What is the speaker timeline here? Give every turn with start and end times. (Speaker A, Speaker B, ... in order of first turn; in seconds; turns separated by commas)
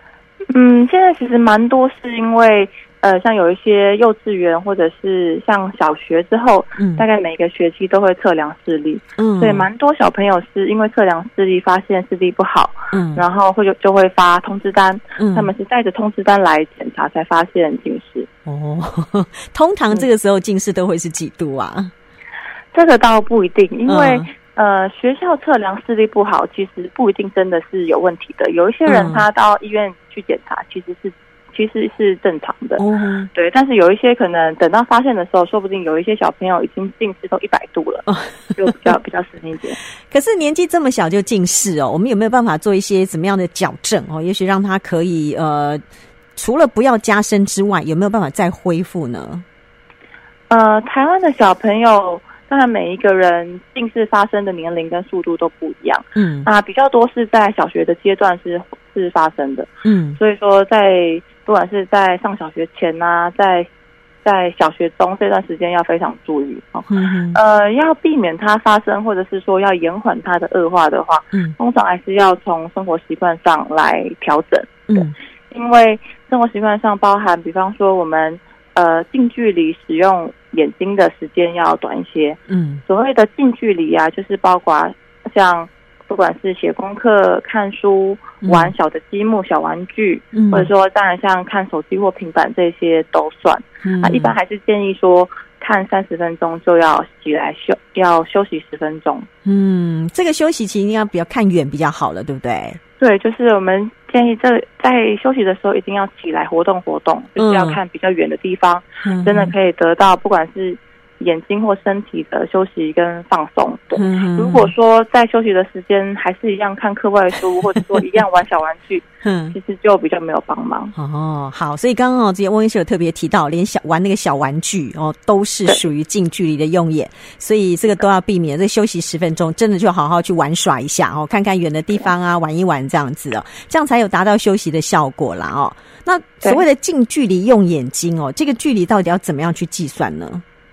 Speaker A: 0.5-18.3, Speaker B: 6.8-7.0, Speaker B: 9.2-9.7, Speaker B: 12.9-13.2, Speaker B: 15.2-15.5, Speaker B: 18.4-21.9, Speaker A: 22.7-32.8, Speaker B: 23.9-24.3, Speaker B: 28.9-29.2, Speaker B: 32.8-33.3, Speaker A: 33.3-39.8, Speaker B: 40.1-45.8, Speaker B: 46.4-49.4, Speaker A: 50.5-63.7, Speaker B: 56.2-56.5, Speaker B: 59.8-60.2, Speaker A: 64.2-99.3, Speaker B: 66.9-67.4, Speaker B: 74.9-75.1, Speaker B: 82.5-82.8, Speaker B: 88.4-88.7, Speaker B: 90.3-90.7, Speaker B: 93.8-94.3, Speaker B: 99.4-102.8, Speaker A: 103.0-120.9, Speaker B: 107.4-107.8, Speaker B: 109.0-109.5, Speaker B: 113.9-114.7, Speaker B: 119.2-119.5, Speaker B: 121.0-140.4